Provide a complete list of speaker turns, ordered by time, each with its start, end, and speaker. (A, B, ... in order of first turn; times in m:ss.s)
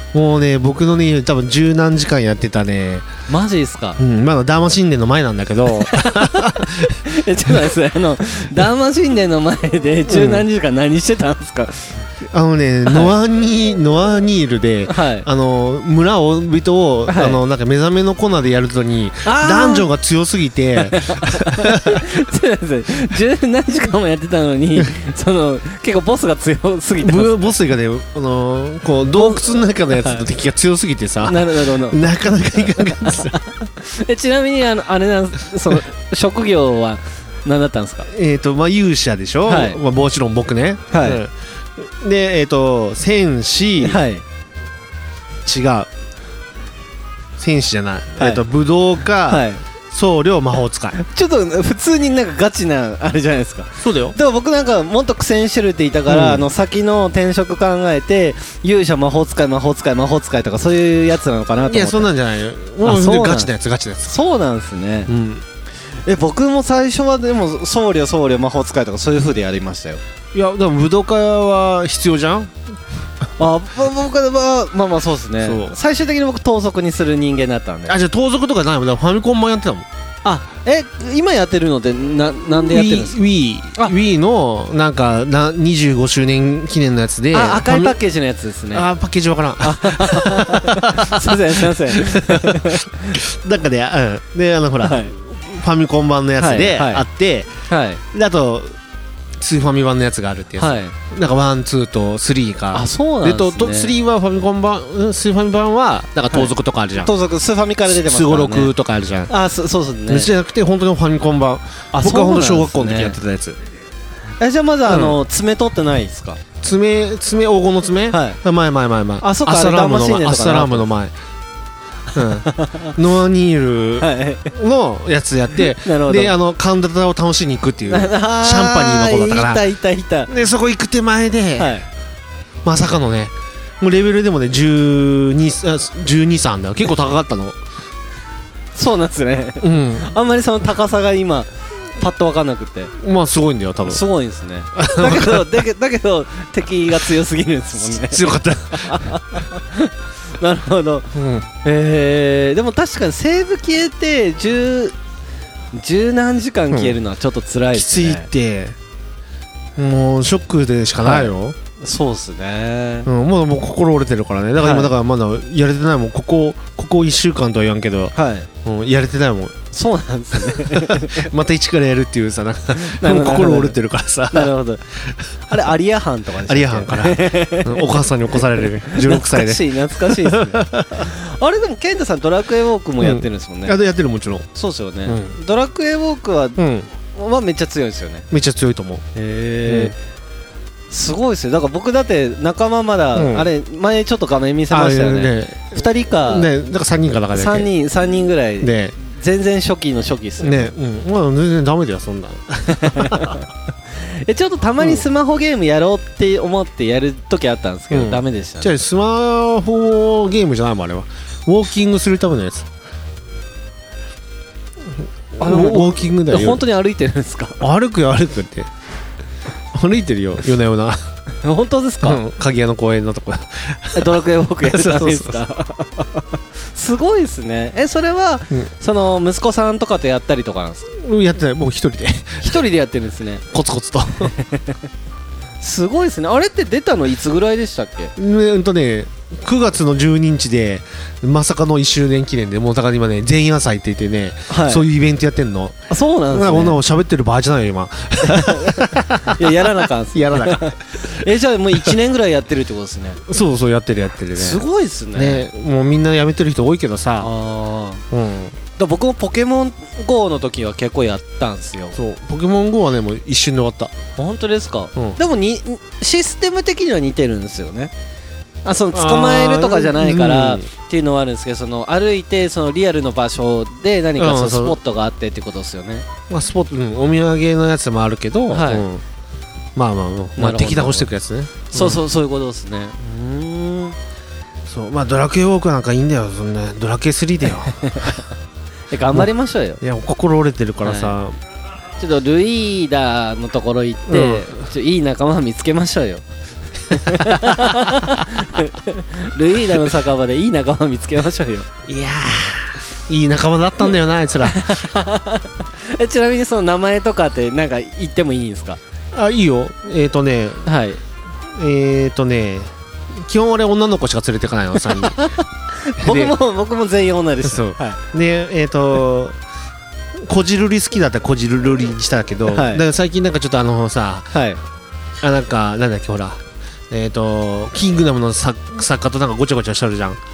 0:00.1-0:03.1 A
0:03.3-0:04.0 B
0:04.0-0:07.7 A
0:05.8-0:12.0 B
0:10.1-0:10.5 A
0:12.3-0:22.1 A
0:12.9-0:13.1 B
0:14.9-0:15.3 B
0:17.1-0:17.4 B
0:19.2-0:19.9 B
0:20.8-0:27.5 B
0:27.0-0:33.4 A
0:29.1-0:30.3 B
0:31.2-0:32.1 B
0:32.8-0:38.1 B
0:38.1-0:44.0 A
0:39.5-0:39.8 B
0:40.9-0:41.2 B
0:43.8-0:44.2 B
0:45.4-0:45.9 A
0:47.4-0:51.0 A
0:48.2-0:48.4 B
0:49.3-0:49.6 B
0:51.0-1:02.1 B
0:53.8-0:54.2 A
0:56.1-0:56.4 A
1:01.6-1:04.2 A
1:02.8-1:03.5 B
1:04.0-1:05.1 B
1:05.1-1:05.4 A
1:06.0-1:10.0 B
1:10.3-1:12.6 A
1:13.4-1:18.0 B
1:15.4-1:15.8 A
1:17.9-1:19.9 A
1:20.2-1:23.2 B
1:22.6-1:28.0 A
1:27.3-1:28.9 B
1:28.7-1:37.5 A
1:29.6-1:33.2 B
1:34.8-1:35.1 B
1:36.4-1:37.0 B
1:37.7-1:38.0 B
1:38.1-1:38.8 A
1:39.4-1:47.1 A
1:40.6-1:41.0 B
1:42.7-1:44.0 B
1:46.3-1:48.7 B
1:47.9-1:49.3 A
1:49.3-1:50.3 B
1:50.1-1:53.6 A
1:51.9-1:53.2 B
1:54.4-1:56.4 B
1:54.9-1:55.2 A
1:56.6-2:01.1 A
1:58.1-1:58.4 B
1:59.2-2:00.9 B
2:02.2-2:09.6 A
2:02.2-2:03.0 B
2:04.0-2:04.5 B
2:05.6-2:06.4 B
2:07.9-2:10.3 B
2:10.3-2:11.8 A
2:11.6-2:11.9 B
2:12.6-2:17.6 A
2:18.8-2:22.9 B
2:19.6-2:20.1 A
2:23.0-2:24.0 A
2:23.8-2:35.0 B
2:24.8-2:25.6 A
2:27.9-2:29.2 A
2:31.1-2:31.5 A
2:35.7-2:38.3 B
2:36.7-2:37.0 A
2:37.7-2:38.8 A
2:39.8-2:41.6 A
2:41.0-2:43.1 B
2:43.1-2:49.6 A
2:44.6-2:44.9 B
2:48.2-2:48.5 B
2:49.7-2:51.3 B
2:50.4-2:55.2 A
2:52.8-2:53.8 B
2:54.3-2:54.8 B
2:55.5-3:03.8 B
2:56.5-3:01.1 A
3:03.0-3:04.5 A
3:04.6-3:08.3 B
3:05.1-3:05.4 A
3:06.6-3:06.9 A
3:08.3-3:09.1 A
3:09.2-3:10.0 B
3:09.6-3:09.9 A
3:10.9-3:16.5 B
3:13.1-3:13.5 A
3:14.7-3:17.7 A
3:17.3-3:20.7 B
3:18.6-3:19.0 A
3:20.4-3:23.4 A
3:22.7-3:23.4 B
3:24.0-3:28.7 B
3:27.9-3:32.7 A
3:35.4-3:36.6 A
3:35.4-3:37.6 B
3:37.6-3:38.7 A
3:39.7-3:41.0 A
3:41.4-3:42.2 B
3:42.0-3:45.4 A
3:43.9-3:50.9 B
3:50.9-3:52.6 A
3:52.4-3:53.4 B
3:53.5-3:54.3 A
3:54.3-3:54.8 B
3:55.6-3:58.1 B
3:58.2-4:05.8 A
4:04.5-4:04.8 B
4:05.9-4:06.8 B
4:06.3-4:12.0 A
4:08.3-4:13.2 B
4:13.3-4:17.3 A
4:14.4-4:15.5 B
4:17.2-4:18.0 B
4:18.1-4:18.6 A
4:18.8-4:22.0 B
4:22.0-4:23.9 A
4:24.2-4:27.9 B
4:28.6-4:36.1 B
4:28.9-4:30.6 A
4:34.2-4:34.8 A
4:36.3-4:39.0 A
4:38.5-4:38.9 B
4:39.8-4:42.0 A
4:40.4-4:41.1 B
4:41.7-4:44.0 B
4:44.7-4:48.2 A
4:47.8-4:48.2 B
4:48.9-4:49.8 B
4:49.8-4:51.4 A
4:50.8-4:51.2 B
4:52.0-4:56.2 B
4:54.1-4:54.5 A
4:56.9-5:01.7 B
4:57.2-4:57.7 A
5:01.9-5:04.9 A
5:04.5-5:08.8 B
5:09.1-5:10.7 A
5:10.6-5:11.0 B
5:11.6-5:15.3 A
5:14.9-5:18.0 B
5:16.0-5:16.4 A
5:17.4-5:19.4 A
5:20.2-5:24.3 A
5:22.5-5:22.8 B
5:24.3-5:24.6 B
5:25.2-5:30.2 A